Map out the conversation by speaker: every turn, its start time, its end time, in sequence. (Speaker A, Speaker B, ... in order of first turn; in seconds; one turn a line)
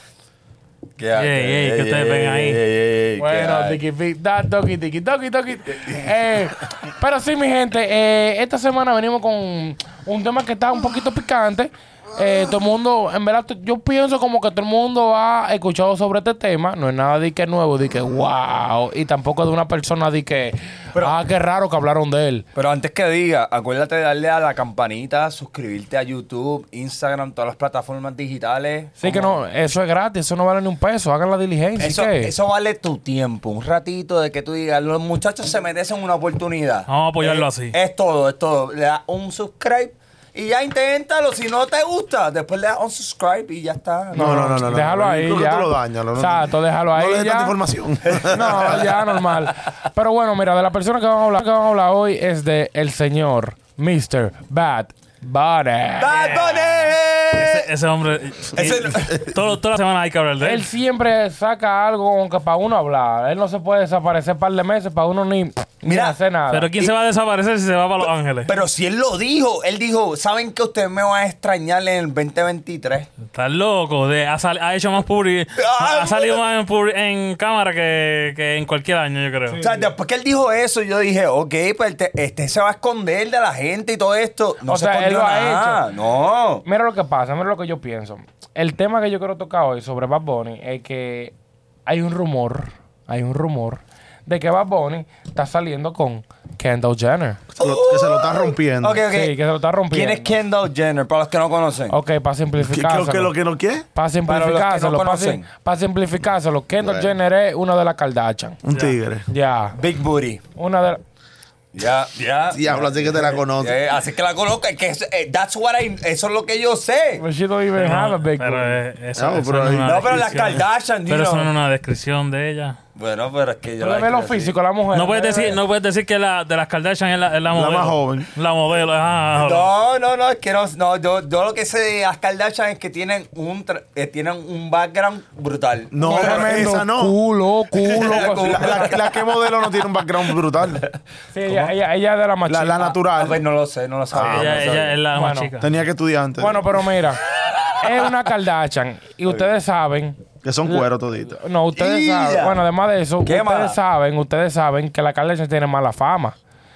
Speaker A: 1.0-3.8
Speaker B: 1.1-2.6
Speaker C: 3.2-22.4
Speaker A: 5.7-6.1
Speaker A: 22.5-29.4
Speaker C: 29.0-32.3
Speaker A: 31.8-44.6
Speaker B: 36.9-37.8
Speaker C: 44.1-47.5
Speaker D: 44.1-48.8
Speaker A: 48.0-49.0
Speaker C: 48.3-56.4
Speaker A: 56.0-57.6
Speaker B: 56.1-60.6
Speaker A: 58.5-59.2
Speaker C: 60.4-66.7
Speaker A: 65.8-66.2
Speaker B: 66.5-68.5
Speaker A: 68.5-73.1
Speaker B: 73.2-79.6
Speaker A: 75.5-76.4
Speaker C: 79.5-79.9
Speaker A: 79.6-86.6
Speaker C: 84.7-85.8
Speaker C: 86.6-91.3
Speaker C: 91.8-97.4
Speaker A: 97.6-99.4
Speaker D: 97.6-99.0
Speaker C: 99.1-100.3
Speaker A: 99.9-102.0
Speaker C: 101.9-103.3
Speaker D: 102.6-103.8
Speaker C: 103.9-108.6
Speaker A: 104.2-105.4
Speaker D: 106.8-107.1
Speaker D: 108.6-109.2
Speaker B: 108.7-109.0
Speaker C: 109.3-109.8
Speaker A: 109.8-110.4
Speaker C: 110.5-111.0
Speaker A: 111.7-117.2
Speaker D: 112.5-113.8
Speaker C: 117.2-118.8
Speaker B: 117.8-122.8
Speaker D: 119.2-120.3
Speaker A: 119.8-121.5
Speaker A: 123.0-124.5
Speaker C: 123.8-125.6
Speaker B: 124.9-129.7
Speaker D: 127.5-128.3
Speaker A: 129.4-136.6
Speaker D: 135.9-137.2
Speaker C: 136.0-138.8
Speaker A: 137.8-140.9
Speaker D: 138.1-140.8
Speaker C: 141.3-143.0
Speaker D: 142.5-143.4
Speaker A: 143.1-145.0
Speaker D: 144.1-144.7
Speaker B: 144.2-145.7
Speaker C: 145.1-145.5
Speaker D: 145.6-146.6
Speaker C: 146.4-147.2
Speaker C: 147.8-156.4
Speaker D: 150.4-151.3
Speaker A: 151.7-152.6
Speaker A: 153.2-153.8